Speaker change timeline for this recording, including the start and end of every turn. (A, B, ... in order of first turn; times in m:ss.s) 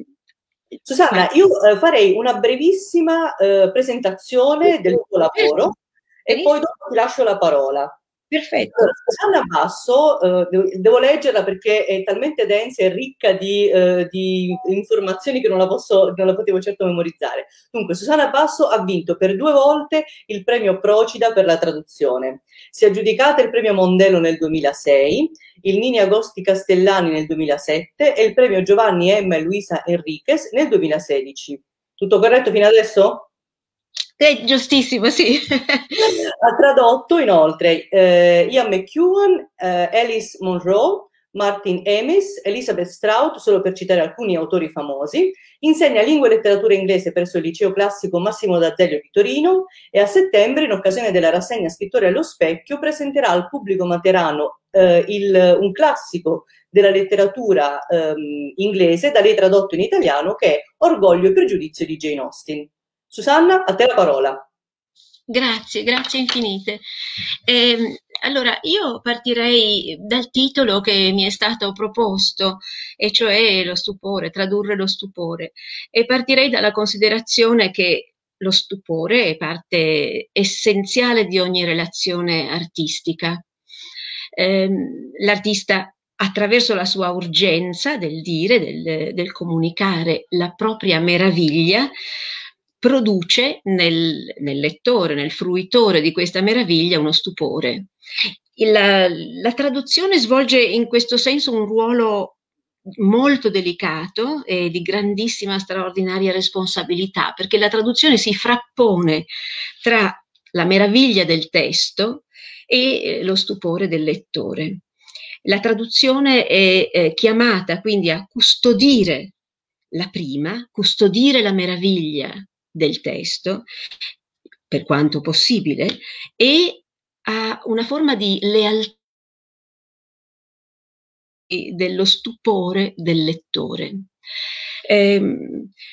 0:00.9-0:05.7 A
0:04.9-0:05.7 B
0:06.3-0:07.9 A
0:06.3-0:06.6 B
0:08.3-0:09.1 B
0:08.9-0:33.3 A
0:34.2-0:36.0 B
0:36.4-1:04.4 A
1:05.3-1:06.8 B
1:07.5-1:23.4 B
1:24.4-1:31.9 B
1:32.8-1:37.9 B
1:38.6-1:42.4 B
1:43.0-1:49.3 B
1:49.8-1:54.8 B
1:55.5-1:59.3 B
1:59.9-2:03.6 B
2:04.7-2:09.0 B
2:11.5-2:14.1 B
2:14.9-2:15.7 B